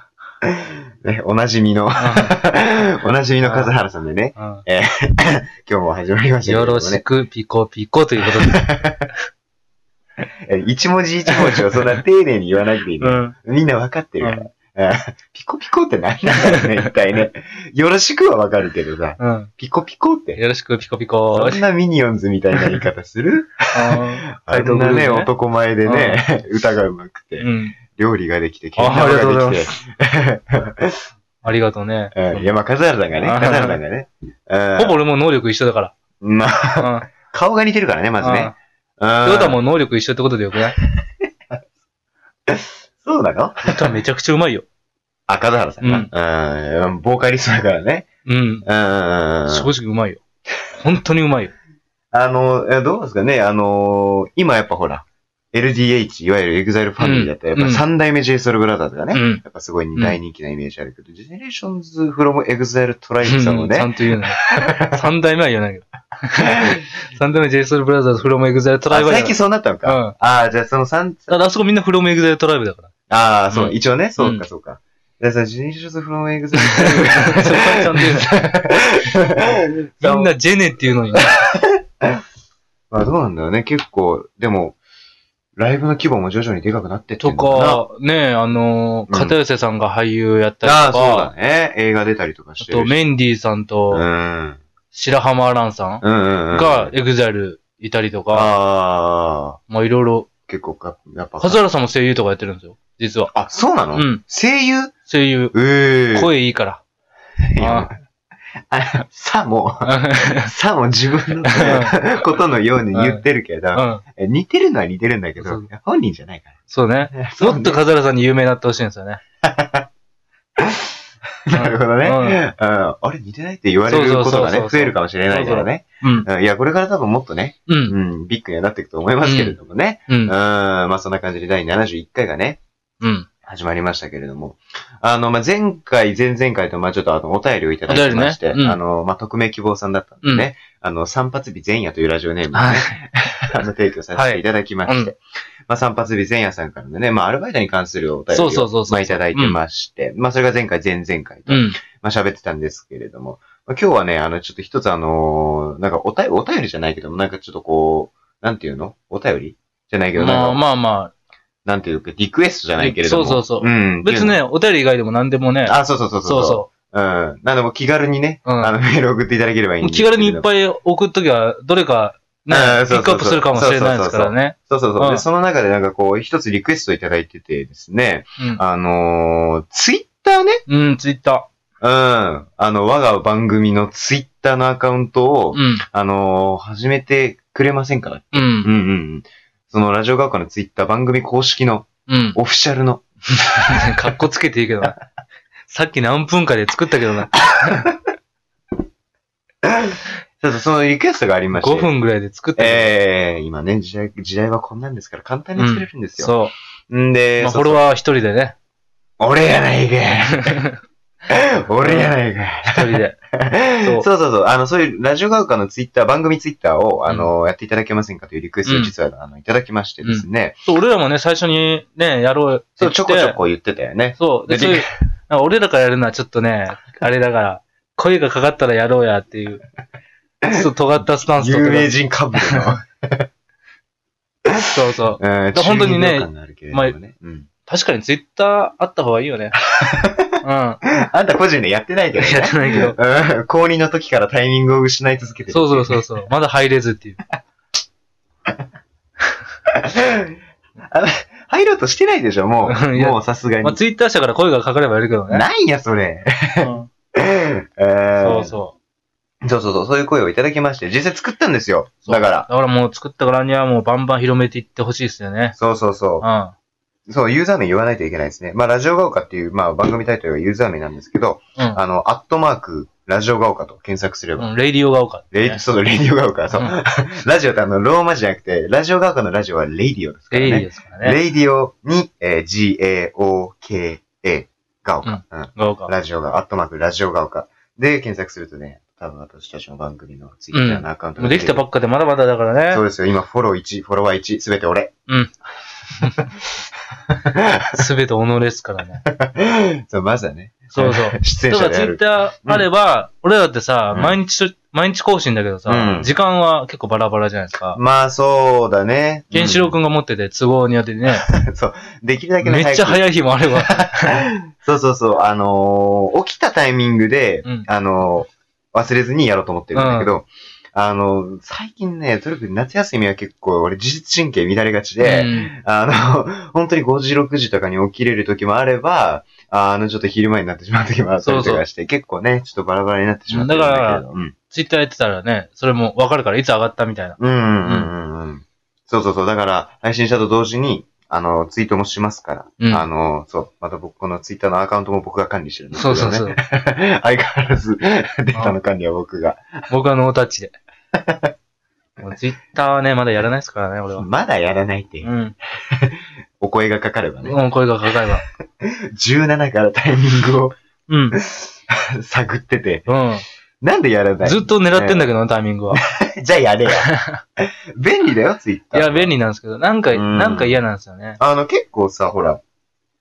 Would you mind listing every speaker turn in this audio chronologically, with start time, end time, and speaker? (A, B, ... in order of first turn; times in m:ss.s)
0:00.4-0:07.0 A
0:02.0-0:02.4 B
0:03.4-0:03.7 B
0:04.4-0:04.6 B
0:06.4-0:08.6 B
0:08.5-0:09.1 A
0:10.5-0:20.4 A
0:11.3-0:11.6 B
0:13.0-0:13.3 B
0:14.2-0:14.5 B
0:19.2-0:19.5 B
0:20.4-0:21.6 B
0:21.3-0:31.0 A
0:22.5-0:22.8 B
0:23.7-0:25.3 B
0:25.8-0:26.2 B
0:27.4-0:27.8 B
0:28.8-0:29.7 B
0:31.4-0:32.5 B
0:32.1-0:35.0 A
0:33.2-0:33.8 B
0:34.8-0:35.9 B
0:36.2-0:39.6 A
0:36.8-0:37.1 B
0:38.2-0:38.5 B
0:39.2-0:40.8 B
0:42.5-0:44.0 A
0:43.6-0:44.6 B
0:45.3-0:48.1 A
0:45.8-0:46.1 B
0:48.2-0:48.6 B
0:48.6-0:49.7 A
0:49.5-0:50.2 B
0:50.8-0:51.5 B
0:52.1-1:04.9 A
0:57.0-0:57.8 B
0:59.1-0:59.4 B
1:03.2-1:10.1 B
1:06.4-1:06.7 A
1:08.9-1:11.4 A
1:11.3-1:12.9 B
1:13.1-1:20.3 A
1:13.5-1:14.4 B
1:16.5-1:18.3 B
1:20.0-1:21.3 B
1:21.1-1:22.0 A
1:22.9-1:24.8 A
1:25.6-1:27.8 A
1:27.2-1:31.3 B
1:29.1-1:29.4 A
1:30.6-1:33.0 A
1:32.6-1:34.0 B
1:33.9-1:34.6 A
1:34.9-1:38.5 B
1:36.0-1:36.9 A
1:38.3-1:39.6 A
1:39.7-1:40.3 B
1:40.5-1:41.6 A
1:41.4-1:43.3 B
1:43.3-1:44.9 A
1:43.9-1:44.2 B
1:45.0-1:45.5 B
1:45.5-1:46.3 A
1:46.1-1:46.8 B
1:47.5-1:48.0 A
1:47.6-1:47.9 B
1:48.7-1:56.5 A
1:49.8-1:50.5 B
1:51.5-1:52.0 B
1:52.9-1:54.0 B
1:55.4-1:55.7 B
1:56.7-1:59.2 B
1:57.1-1:57.8 A
1:59.4-1:59.9 A
2:00.6-2:01.0 A
2:01.5-2:12.6 A
2:01.5-2:02.4 B
2:03.9-2:06.3 B
2:07.7-2:07.9 B
2:09.2-2:09.6 B
2:10.1-2:10.3 B
2:13.0-2:13.3 B
2:13.4-2:40.6 A
2:17.9-2:18.8 B
2:22.5-2:23.0 B
2:24.1-2:25.1 B
2:28.3-2:29.6 B
2:31.5-2:31.8 B
2:40.2-2:41.1 B
2:41.6-2:44.4 A
2:42.8-2:46.7 B
2:45.6-2:50.4 A
2:48.4-2:48.7 B
2:49.8-2:55.2 B
2:52.5-3:00.6 A
3:00.7-3:01.5 B
3:01.8-3:13.0 A
3:05.5-3:05.8 B
3:08.3-3:08.7 B
3:12.1-3:12.4 B
3:13.7-3:15.0 B
3:15.7-3:17.8 B
3:19.8-3:21.9 A
3:21.5-3:22.9 B
3:22.6-3:26.3 A
3:25.6-3:26.5 B
3:26.9-3:27.8 A
3:27.4-3:28.6 B
3:29.2-3:30.6 A
3:30.3-3:30.8 B
3:31.3-3:40.6 A
3:31.8-3:32.1 B
3:32.7-3:33.2 B
3:33.8-3:34.0 B
3:38.6-3:38.9 B
3:40.0-3:43.4 B
3:42.8-3:44.9 A
3:44.2-3:49.6 B
3:50.5-3:52.7 B
3:51.4-3:53.3 A
3:54.7-3:56.9 B
3:55.2-3:57.5 A
3:57.7-3:59.6 B
3:59.7-4:00.4 A
4:00.4-4:00.8 B
4:00.9-4:06.0 A
4:02.2-4:03.0 B
4:05.5-4:07.2 B
4:09.9-4:10.3 A
4:10.9-4:13.8 A
4:12.6-4:15.4 B
4:15.3-4:18.6 A
4:16.6-4:16.9 B
4:18.2-4:18.7 B
4:19.4-4:22.5 A
4:22.0-4:25.6 B
4:25.6-4:26.3 A
4:26.2-4:26.5 B
4:27.1-4:34.5 A
4:34.4-4:35.6 B
4:35.3-4:51.6 A
4:36.5-4:36.8 B
4:40.3-4:41.2 B
4:45.0-4:45.9 B
4:50.5-4:52.8 B
4:52.7-4:54.9 A
4:55.1-4:55.3 B
4:57.3-4:57.8 A
4:57.7-4:59.0 B
4:59.0-5:02.7 A
5:00.7-5:07.8 B
5:03.9-5:04.2 A
5:05.7-5:06.1 A
5:07.7-5:09.8 A
5:09.3-5:11.3 B
5:11.1-5:13.0 A
5:12.4-5:14.2 B
5:13.6-5:34.3 A
5:19.7-5:20.1 B
5:25.0-5:25.5 B
5:31.2-5:31.6 B
5:33.3-5:37.9 B
5:37.2-5:49.5 A
5:42.6-5:42.8 B
5:45.7-5:46.4 B
5:49.7-5:50.5 B
5:52.0-5:54.0 B
5:54.0-5:55.1 A
5:55.0-5:55.3 B
5:55.6-5:57.4 A
5:57.2-5:58.2 B
5:58.6-6:00.6 A
6:00.9-6:01.2 B
6:01.1-6:02.9 A
6:02.9-6:03.2 B
6:03.6-6:05.1 A
6:04.2-6:05.8 B
6:05.7-6:09.1 A
6:06.8-6:07.2 B
6:08.7-6:11.2 B
6:09.9-6:10.6 A
6:11.2-6:12.4 A